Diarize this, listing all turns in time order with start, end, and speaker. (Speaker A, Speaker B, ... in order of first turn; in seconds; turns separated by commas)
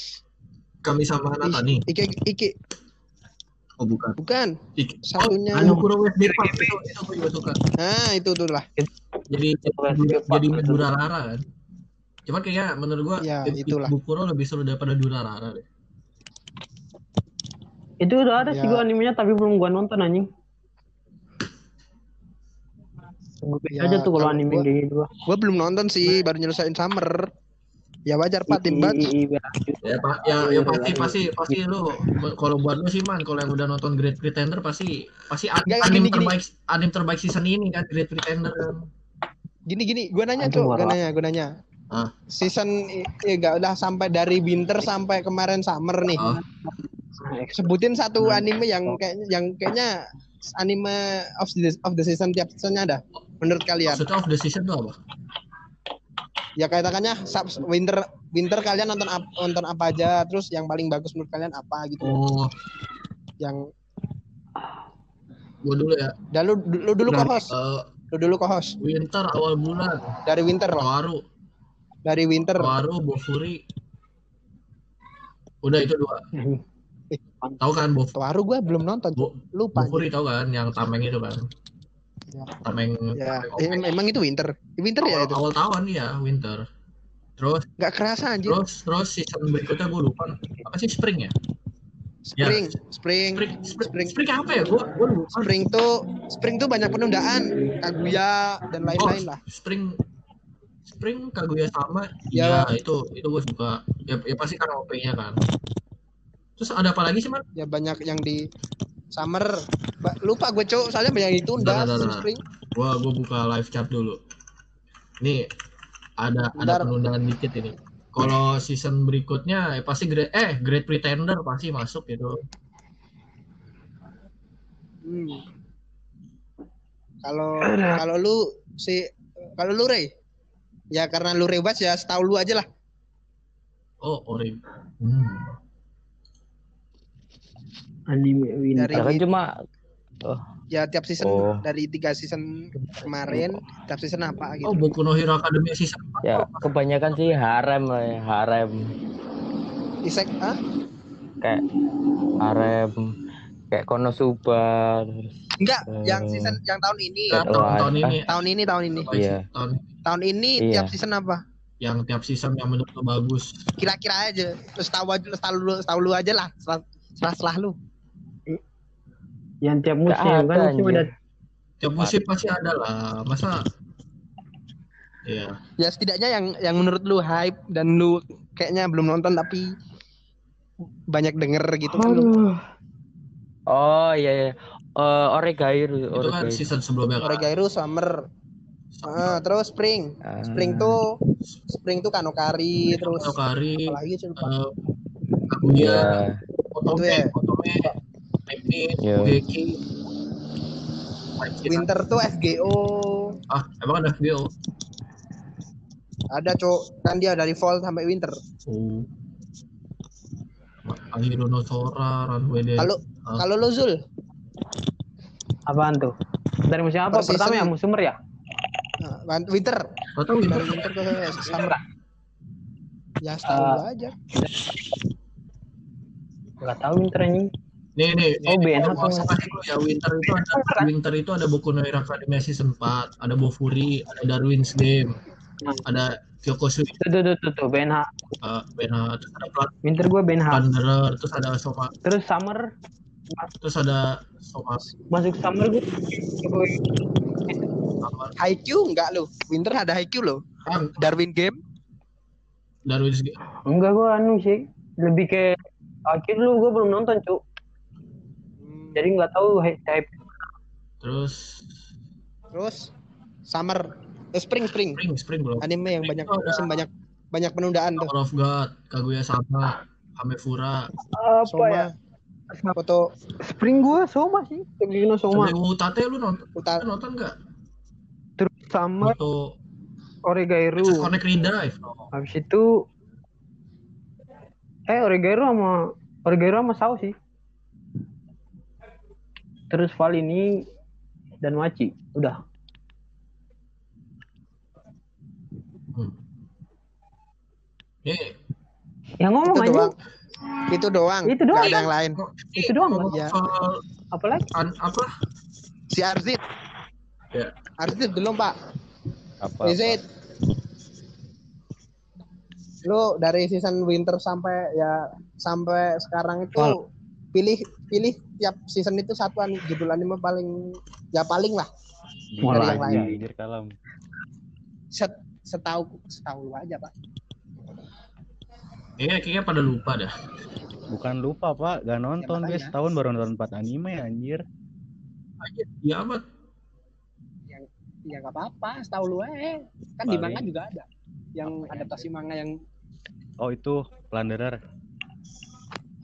Speaker A: 0.8-1.9, Speaker B: 1.4-2.5, Speaker A: 3.8-4.2, Speaker B: 4.2-5.8, Speaker A: 4.8-7.6, Speaker C: 5.6-6.8, Speaker B: 7.8-8.7, Speaker A: 9.3-11.4, Speaker C: 9.8-10.9, Speaker A: 12.3-15.7, Speaker B: 13.2-13.9, Speaker C: 18.0-20.3, Speaker B: 18.4-18.8, Speaker C: 23.4-25.1, Speaker B: 23.8-24.7, Speaker B: 25.3-27.3, Speaker B: 28.1-29.1, Speaker C: 28.5-31.6, Speaker A: 29.8-38.9, Speaker B: 35.7-36.3, Speaker B: 39.7-41.5, Speaker C: 40.4-41.0, Speaker B: 42.3-46.2, Speaker C: 46.2-49.0, Speaker A: 46.2-46.4, Speaker B: 47.5-50.0, Speaker B: 50.5-54.0, Speaker A: 53.8-55.0, Speaker B: 56.6-62.2, Speaker A: 62.0-62.5, Speaker A: 65.6-66.1, Speaker B: 66.3-67.5, Speaker A: 67.1-67.9, Speaker B: 68.1-68.8, Speaker A: 68.8-70.1, Speaker B: 70.3-70.9, Speaker A: 70.8-71.2, Speaker B: 72.1-72.8, Speaker A: 72.6-73.6, Speaker A: 75.6-76.3, Speaker C: 76.4-76.6, Speaker A: 77.6-78.2, Speaker B: 78.2-80.1, Speaker A: 79.2-81.5, Speaker A: 82.6-84.0, Speaker B: 83.2-85.4, Speaker A: 85.0-86.7, Speaker A: 87.4-87.7, Speaker B: 87.8-88.6, Speaker A: 88.4-91.3, Speaker B: 92.3-94.2, Speaker A: 92.4-92.7, Speaker A: 93.3-95.4, Speaker B: 95.3-99.4, Speaker A: 98.9-100.0, Speaker A: 100.9-105.4, Speaker B: 102.3-102.7, Speaker A: 106.6-107.5, Speaker B: 107.6-108.4, Speaker B: 109.1-112.4, Speaker A: 111.6-114.2, Speaker A: 116.2-122.4, Speaker B: 116.6-116.9, Speaker B: 125.0-125.4, Speaker B: 127.2-130.1, Speaker C: 127.6-128.0, Speaker B: 130.9-132.7, Speaker A: 134.0-135.5, Speaker C: 138.1-139.1, Speaker B: 138.8-139.2, Speaker D: 138.9-139.5, Speaker B: 140.7-142.4, Speaker D: 141.2-141.6, Speaker D: 142.8-143.6, Speaker B: 143.1-144.8, Speaker A: 144.6-146.7, Speaker D: 146.2-148.9, Speaker B: 150.1-150.6, Speaker D: 151.4-151.7, Speaker D: 152.4-153.1, Speaker D: 153.7-155.3, Speaker B: 155.6-157.5, Speaker D: 155.9-156.6, Speaker A: 157.3-158.4, Speaker D: 157.3-158.2, Speaker B: 158.3-159.1, Speaker A: 158.9-159.8, Speaker D: 159.1-159.4, Speaker B: 160.1-161.4, Speaker D: 160.6-160.9, Speaker A: 161.8-163.5, Speaker B: 163.8-167.8, Speaker C: 169.6-171.1, Speaker D: 170.1-171.1, Speaker A: 171.8-173.6, Speaker A: 175.3-175.6, Speaker B: 175.8-179.7, Speaker B: 181.1-182.3, Speaker D: 181.9-182.7, Speaker D: 183.7-186.6, Speaker A: 186.2-187.5, Speaker B: 187.2-188.2, Speaker A: 188.9-189.4, Speaker B: 189.1-191.1, Speaker D: 190.3-191.0, Speaker B: 191.8-194.5, Speaker A: 192.9-194.7, Speaker A: 195.5-196.2, Speaker D: 195.7-196.4, Speaker A: 196.7-197.9, Speaker B: 196.9-197.3, Speaker A: 198.5-199.8, Speaker D: 199.0-199.4, Speaker A: 201.4-201.9, Speaker B: 201.7-203.3, Speaker A: 203.5-204.5, Speaker B: 206.3-208.4, Speaker A: 208.7-209.1, Speaker A: 210.8-213.4, Speaker B: 212.8-214.0, Speaker C: 215.7-218.2, Speaker B: 217.1-217.7, Speaker B: 219.0-219.8, Speaker A: 220.2-221.5, Speaker B: 220.5-221.8, Speaker C: 221.4-221.8, Speaker B: 223.2-224.2, Speaker C: 223.4-223.8, Speaker C: 226.6-227.5, Speaker A: 228.0-235.2, Speaker C: 228.4-229.3, Speaker C: 230.3-230.9, Speaker A: 235.8-237.0, Speaker C: 237.0-238.2, Speaker A: 238.4-239.7, Speaker C: 239.8-240.6, Speaker A: 240.5-241.9, Speaker C: 242.1-242.7, Speaker A: 243.6-244.9, Speaker C: 245.1-247.8, Speaker A: 248.0-248.3, Speaker B: 248.4-250.4, Speaker A: 250.7-251.0, Speaker B: 251.0-251.6, Speaker A: 252.9-253.4, Speaker C: 253.7-255.6, Speaker C: 256.1-257.4, Speaker B: 258.6-259.1, Speaker C: 258.9-260.2, Speaker A: 261.0-261.6, Speaker B: 262.5-262.9, Speaker B: 263.5-265.0, Speaker A: 264.9-266.8, Speaker B: 265.6-268.1, Speaker A: 268.0-270.9, Speaker C: 271.1-271.9, Speaker B: 271.5-271.9, Speaker C: 272.5-272.8, Speaker B: 272.8-273.1, Speaker C: 273.4-275.6, Speaker A: 275.3-277.3, Speaker B: 276.6-276.8, Speaker C: 278.4-279.2, Speaker A: 279.0-279.5, Speaker C: 280.3-281.1, Speaker A: 280.8-282.1, Speaker C: 282.1-282.7, Speaker C: 284.9-287.1, Speaker C: 289.7-290.6, Speaker C: 291.4-292.4, Speaker A: 298.0-298.3, Speaker C: 299.2-299.9, Speaker B: 299.5-299.9, Speaker B: 300.7-302.2, Speaker C: 301.2-301.8, Speaker A: 301.5-303.8, Speaker C: 302.6-303.1, Speaker C: 304.1-304.5, Speaker A: 304.5-305.1, Speaker B: 305.9-306.4, Speaker B: 307.8-308.5, Speaker E: 309.4-310.0, Speaker B: 309.6-310.0, Speaker B: 312.8-320.5, Speaker B: 321.1-321.7, Speaker E: 322.3-323.7, Speaker C: 322.4-323.2, Speaker B: 322.5-323.1, Speaker B: 324.9-326.9, Speaker A: 329.0-330.1, Speaker E: 330.9-334.4, Speaker B: 332.2-332.7, Speaker A: 335.4-336.2, Speaker B: 337.5-342.5, Speaker E: 340.1-340.4, Speaker E: 341.5-342.1, Speaker E: 343.4-344.6